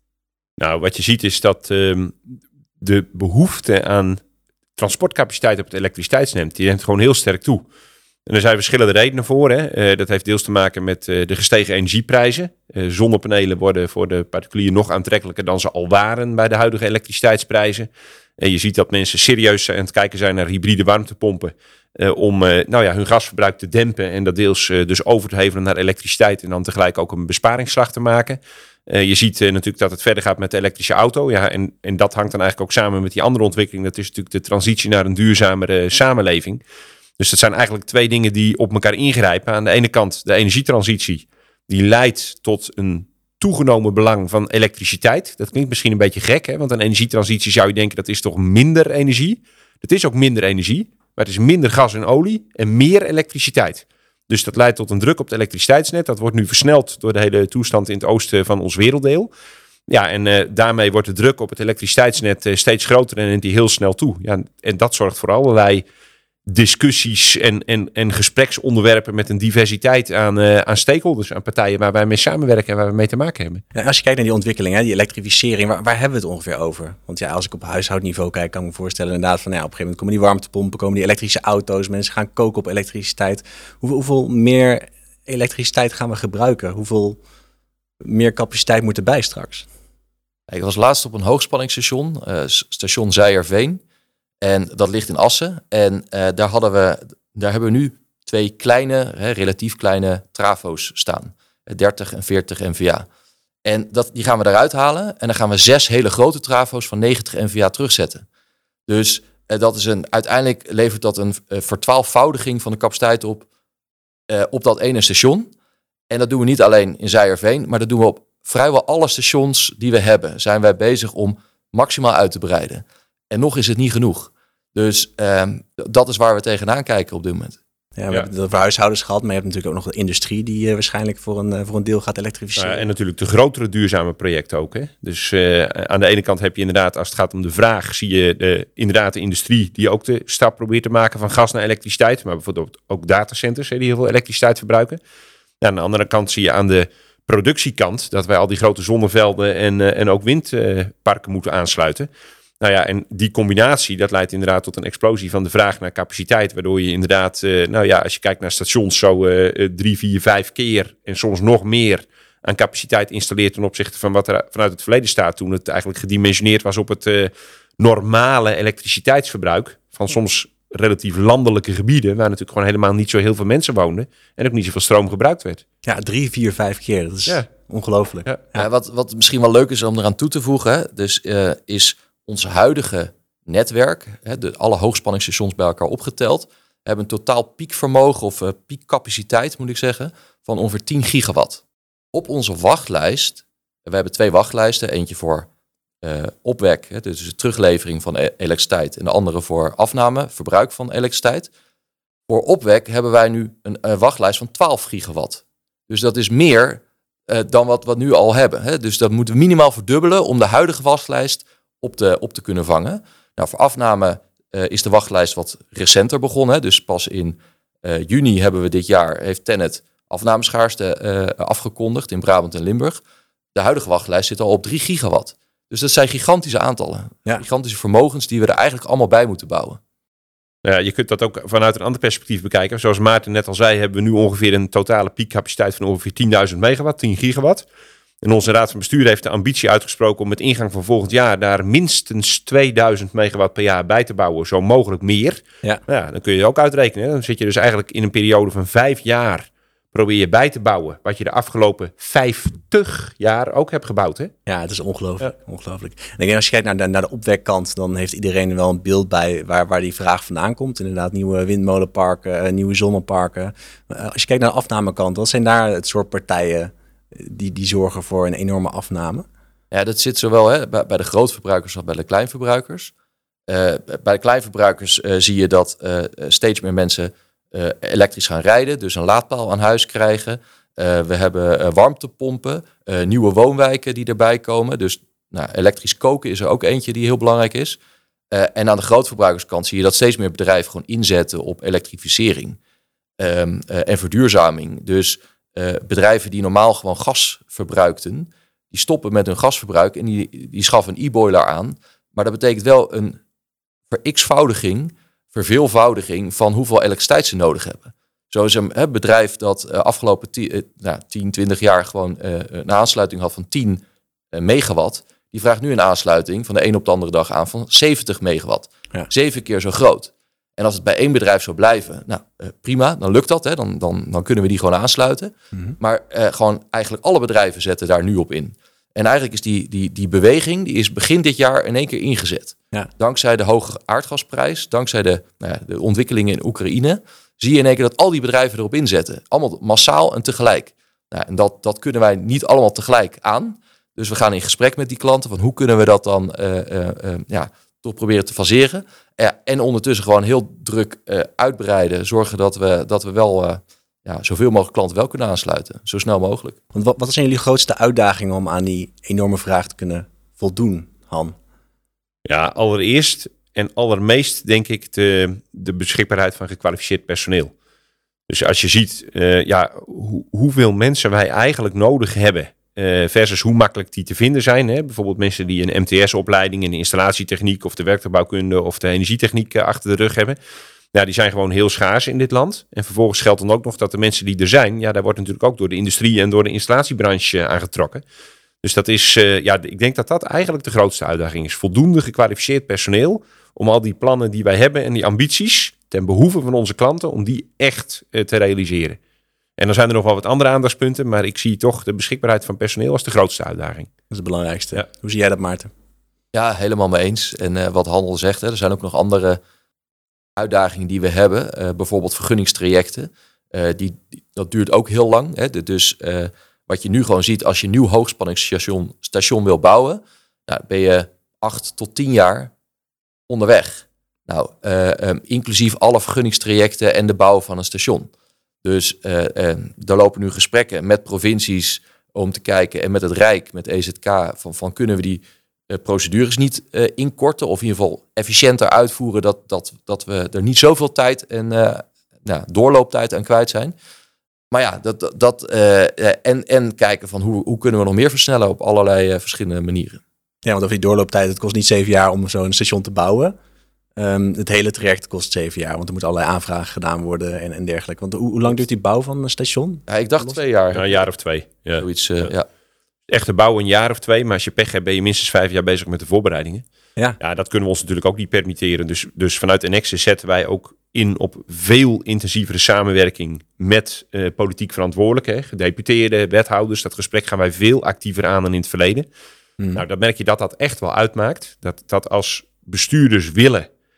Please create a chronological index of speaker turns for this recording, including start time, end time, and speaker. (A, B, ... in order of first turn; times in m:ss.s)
0:00.6-0:02.2 A
0:02.8-0:04.2 A
0:04.8-0:07.6 A
0:08.3-0:36.6 A
0:37.2-0:59.3 A
0:59.9-1:05.8 A
1:06.4-1:13.6 A
1:13.7-1:27.2 B
1:28.0-1:29.7 B
1:30.5-1:33.8 C
1:34.4-1:43.1 C
1:43.6-1:48.2 C
1:48.9-1:53.4 C
1:54.3-1:55.5 C
1:56.1-2:07.6 C
2:08.0-2:12.9 B
2:12.6-2:25.0 A
2:25.6-2:32.1 A
2:32.6-2:55.6 A
2:55.8-2:58.6 B
2:58.6-3:11.6 C
3:12.1-3:15.5 C
3:16.0-3:21.5 C
3:22.3-3:43.0 C
3:43.5-3:49.8 C
3:50.6-3:57.6 A
3:58.2-4:14.3 A
4:14.5-4:29.2 B
4:29.7-4:32.9 C
4:33.5-4:47.8 C
4:48.3-4:52.6 C
4:53.2-5:03.2 C
5:03.9-5:56.6 C
5:56.7-6:01.4 B
6:02.2-6:07.5 A
6:08.3-6:20.4 A
6:20.9-6:28.0 A
6:28.6-6:39.0 A
6:39.6-6:43.9 A
6:44.1-6:45.7 B
6:46.3-6:49.4 C
6:50.4-7:02.5 C
7:03.3-7:08.1 C
7:08.6-7:23.8 C
7:24.5-7:30.0 C
7:30.4-7:33.4 B
7:34.0-7:40.4 B
7:39.9-7:41.0 C
7:40.7-7:42.3 A
7:41.8-7:42.5 C
7:43.1-7:46.6 A
7:47.2-7:59.0 A
7:59.7-8:03.7 A